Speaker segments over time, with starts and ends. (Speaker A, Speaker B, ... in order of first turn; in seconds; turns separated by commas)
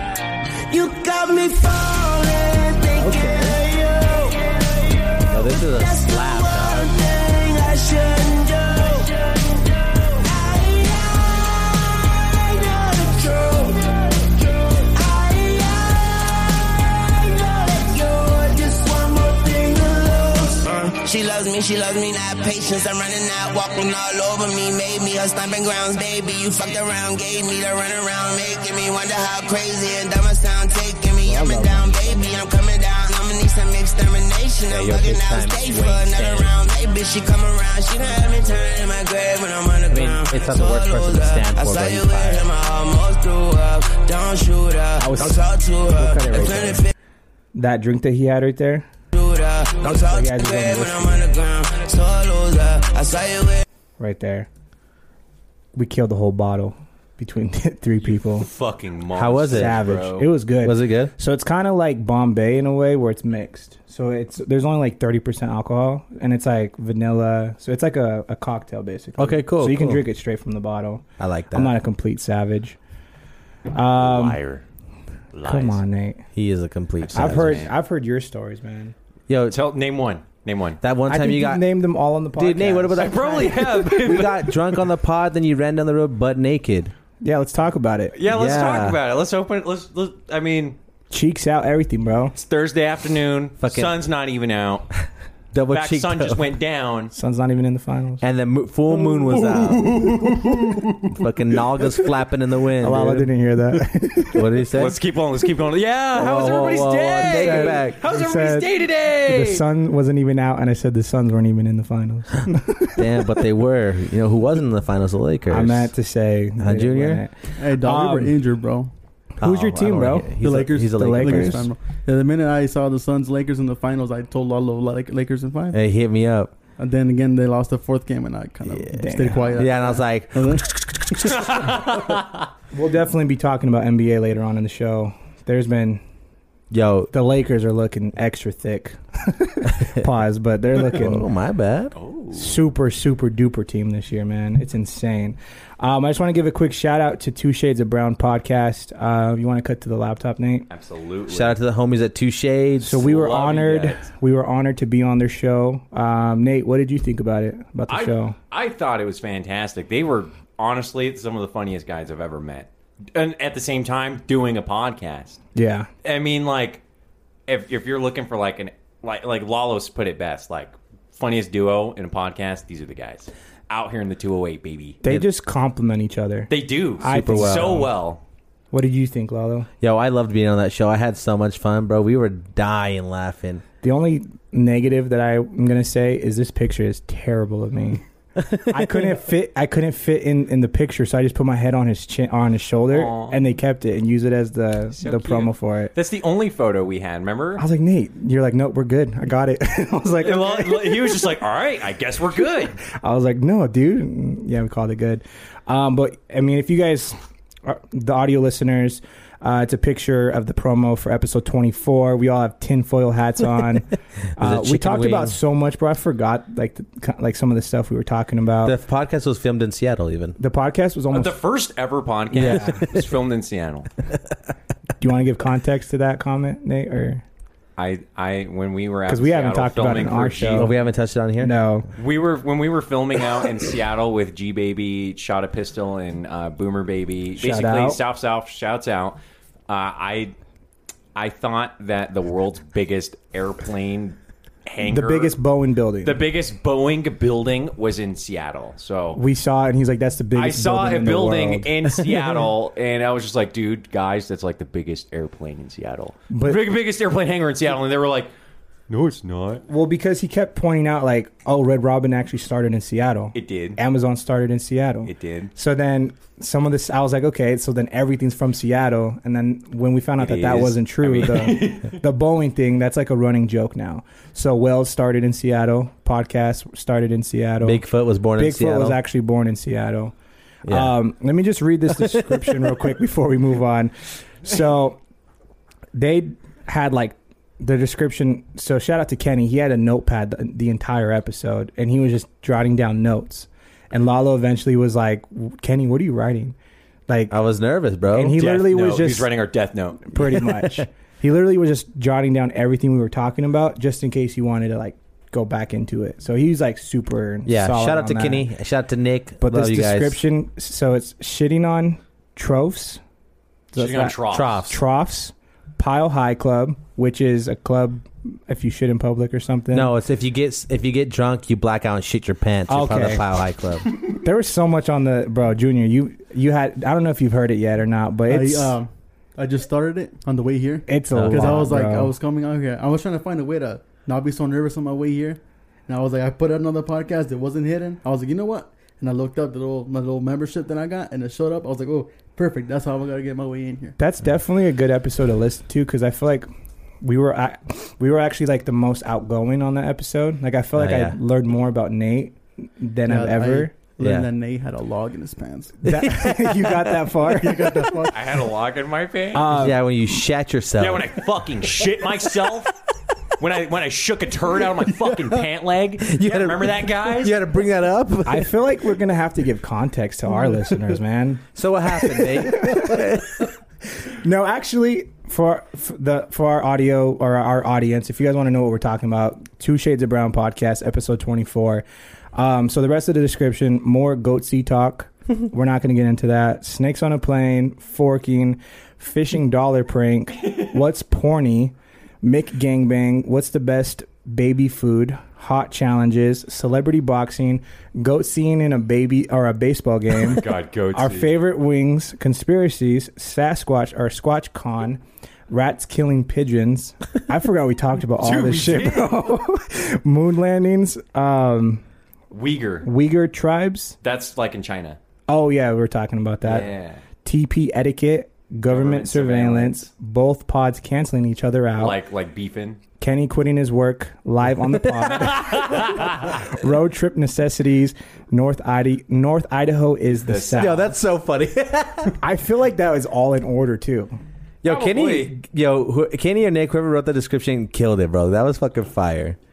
Speaker A: 0.7-46.9, Speaker B: 3.0-3.5, Speaker C: 3.1-3.4, Speaker B: 5.3-7.0, Speaker C: 31.2-32.5, Speaker B: 34.7-36.5, Speaker B: 39.9-42.5, Speaker C: 45.0-46.8, Speaker C: 47.5-48.9, Speaker A: 49.1-53.6, Speaker C: 49.8-51.2, Speaker C: 54.0-54.5, Speaker C: 55.7-58.5, Speaker D: 58.0-60.3, Speaker B: 59.1-59.8, Speaker C: 59.5-72.8, Speaker B: 60.6-61.1, Speaker B: 69.2-70.0, Speaker B: 71.2-71.7, Speaker C: 73.7-74.4, Speaker D: 74.0-74.6, Speaker D: 75.3-75.8, Speaker C: 75.4-76.2, Speaker B: 76.3-77.7, Speaker D: 77.0-77.7, Speaker C: 77.1-78.9, Speaker B: 79.3-79.6, Speaker D: 79.5-80.8, Speaker B: 80.8-81.6, Speaker C: 81.1-83.8, Speaker B: 82.4-86.9, Speaker D: 83.0-84.5, Speaker C: 87.2-88.2, Speaker D: 88.1-90.8, Speaker B: 88.2-89.0, Speaker C: 91.1-92.3, Speaker D: 92.3-94.9, Speaker B: 93.6-94.0, Speaker B: 95.5-96.4, Speaker D: 95.7-97.1, Speaker C: 97.1-98.2, Speaker B: 98.2-100.2, Speaker D: 99.0-101.0, Speaker B: 101.1-103.3, Speaker C: 102.8-104.4, Speaker B: 104.3-105.0, Speaker D: 104.7-109.6, Speaker B: 106.1-108.0, Speaker C: 107.2-108.7, Speaker C: 109.2-113.0, Speaker B: 113.0-115.9, Speaker C: 115.5-118.4, Speaker B: 116.6-117.2, Speaker E: 117.6-118.9, Speaker C: 119.4-121.7, Speaker B: 119.4-121.7, Speaker E: 120.4-125.8, Speaker B: 125.7-126.5, Speaker E: 126.8-131.8, Speaker B: 128.7-128.9, Speaker C: 128.9-129.6, Speaker B: 129.5-131.5, Speaker C: 132.7-136.0, Speaker B: 136.7-137.1, Speaker C: 137.1-141.2, Speaker B: 140.8-141.9, Speaker D: 141.9-142.6, Speaker C: 142.3-150.7, Speaker D: 150.7-151.6, Speaker B: 151.3-153.1, Speaker C: 152.8-158.3, Speaker D: 153.0-154.1, Speaker D: 157.9-165.4, Speaker C: 165.5-165.9, Speaker D: 166.0-166.8, Speaker D: 167.5-175.0, Speaker C: 175.0-177.9, Speaker D: 176.5-178.2, Speaker B: 177.0-177.8, Speaker C: 178.7-179.7, Speaker B: 179.8-183.6, Speaker C: 183.8-188.0, Speaker B: 188.4-189.2, Speaker C: 188.7-195.9, Speaker D: 192.9-193.4, Speaker D: 194.9-197.6, Speaker C: 197.6-201.2, Speaker D: 200.2-202.8, Speaker C: 202.9-218.7, Speaker B: 214.4-215.3, Speaker B: 218.6-220.4, Speaker C: 220.4-221.4, Speaker D: 221.1-223.9, Speaker B: 222.3-223.0, Speaker C: 222.4-222.8, Speaker C: 225.0-227.2, Speaker D: 227.8-230.7, Speaker C: 229.1-230.7, Speaker B: 230.6-231.5, Speaker C: 231.4-231.9, Speaker D: 232.0-240.3, Speaker C: 237.4-238.0, Speaker D: 241.1-245.4, Speaker C: 244.8-246.2, Speaker D: 246.0-249.2, Speaker C: 249.1-252.4, Speaker D: 250.3-258.3, Speaker C: 256.3-256.6, Speaker D: 258.9-259.6, Speaker C: 259.7-277.8, Speaker D: 263.3-263.8, Speaker D: 265.0-265.5, Speaker D: 270.2-272.0, Speaker B: 277.6-279.0, Speaker C: 278.4-280.1, Speaker B: 280.6-280.9, Speaker C: 280.7-285.0, Speaker B: 282.0-282.7, Speaker C: 285.9-296.6, Speaker C: 297.1-297.3, Speaker B: 297.3-298.4, Speaker C: 298.1-299.3, Speaker D: 298.4-300.1, Speaker C: 300.1-308.5, Speaker B: 307.4-310.2, Speaker C: 309.4-313.0, Speaker C: 313.7-319.9, Speaker D: 313.7-314.6, Speaker B: 314.3-314.8, Speaker B: 319.7-323.9, Speaker C: 322.7-323.2, Speaker C: 324.1-328.8, Speaker E: 328.3-343.9, Speaker C: 330.9-332.1, Speaker B: 331.1-331.7, Speaker C: 344.0-346.5, Speaker C: 347.0-353.7, Speaker B: 350.7-351.2, Speaker E: 353.1-355.7, Speaker B: 354.0-354.3, Speaker C: 355.8-358.0, Speaker B: 355.9-356.6, Speaker E: 357.3-358.4, Speaker D: 358.1-359.5, Speaker C: 359.3-359.8, Speaker B: 359.5-361.1, Speaker D: 360.8-362.7, Speaker D: 363.4-367.4, Speaker B: 366.1-368.5, Speaker C: 368.2-373.0, Speaker B: 371.5-373.5, Speaker C: 374.1-411.8, Speaker D: 400.2-401.3, Speaker D: 408.2-409.1, Speaker D: 412.3-412.9, Speaker C: 412.8-414.0, Speaker D: 414.0-415.0, Speaker C: 415.3-416.7, Speaker D: 416.4-417.0, Speaker C: 417.2-421.9, Speaker D: 418.7-419.9, Speaker D: 421.8-422.8, Speaker C: 423.0-430.9, Speaker D: 425.4-426.1, Speaker D: 430.3-430.9, Speaker B: 430.6-432.2, Speaker C: 432.2-434.2, Speaker B: 434.6-439.4, Speaker D: 434.6-435.3